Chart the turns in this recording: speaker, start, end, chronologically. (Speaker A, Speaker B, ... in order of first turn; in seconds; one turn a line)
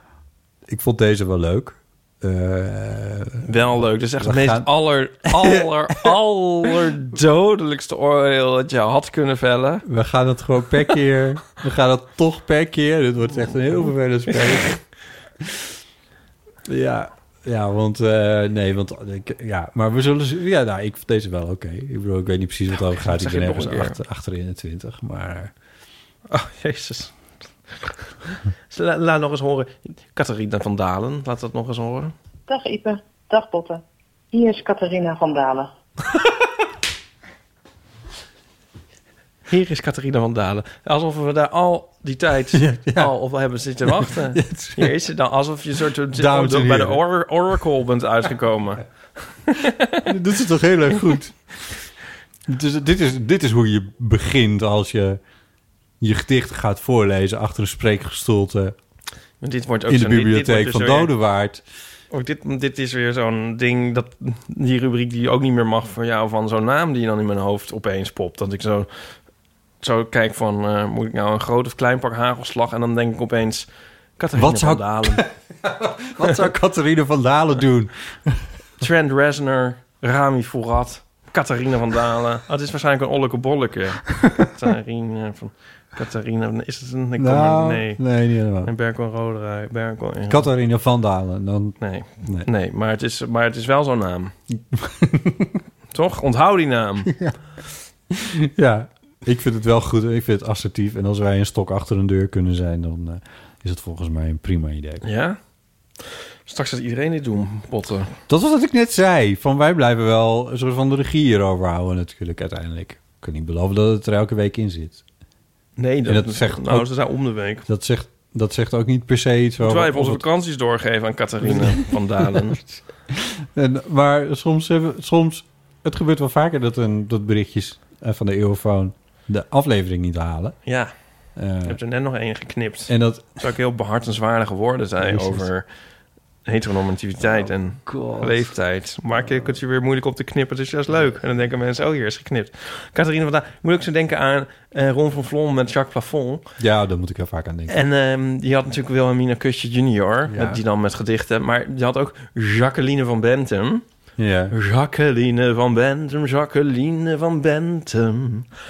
Speaker A: 0.7-3.5
Speaker B: 3.5-9.8
Speaker A: 4.2-4.7
Speaker A: 5.2-6.8
Speaker A: 9.8-14.8
Speaker A: 16.6-25.5
Speaker B: 22.9-24.0
Speaker B: 26.3-27.1
Speaker B: 27.7-32.1
Speaker C: 32.5-35.7
Speaker B: 39.5-50.0
Speaker A: 42.5-43.1
Speaker A: 43.9-44.9
Speaker A: 46.1-47.0
Speaker A: 50.0-51.8
Speaker A: 52.5-55.2
Speaker A: 56.0-58.8
Speaker B: 59.4-61.1
Speaker A: 59.9-61.6
Speaker B: 62.1-68.9
Speaker B: 69.8-75.3
Speaker A: 74.3-78.5
Speaker B: 78.8-88.0
Speaker A: 87.2-88.7
Speaker B: 88.6-90.5
Speaker A: 90.3-92.5
Speaker B: 91.8-94.3
Speaker A: 94.7-95.6
Speaker B: 95.9-97.2
Speaker A: 97.0-97.4
Speaker A: 98.1-105.0
Speaker B: 105.0-105.4
Speaker B: 106.5-108.2
Speaker A: 108.3-115.0
Speaker B: 115.8-117.6
Speaker A: 116.0-116.9
Speaker A: 117.6-120.2
Speaker B: 119.6-122.7
Speaker A: 121.4-122.5
Speaker A: 123.1-130.6
Speaker B: 130.7-130.9
Speaker A: 131.3-131.8
Speaker B: 131.6-135.7
Speaker A: 132.9-133.4
Speaker A: 135.0-135.5
Speaker B: 136.4-146.4
Speaker A: 137.3-138.5
Speaker A: 146.6-147.8
Speaker B: 147.7-153.8
Speaker A: 150.3-150.6
Speaker A: 154.2-154.5
Speaker B: 154.5-158.5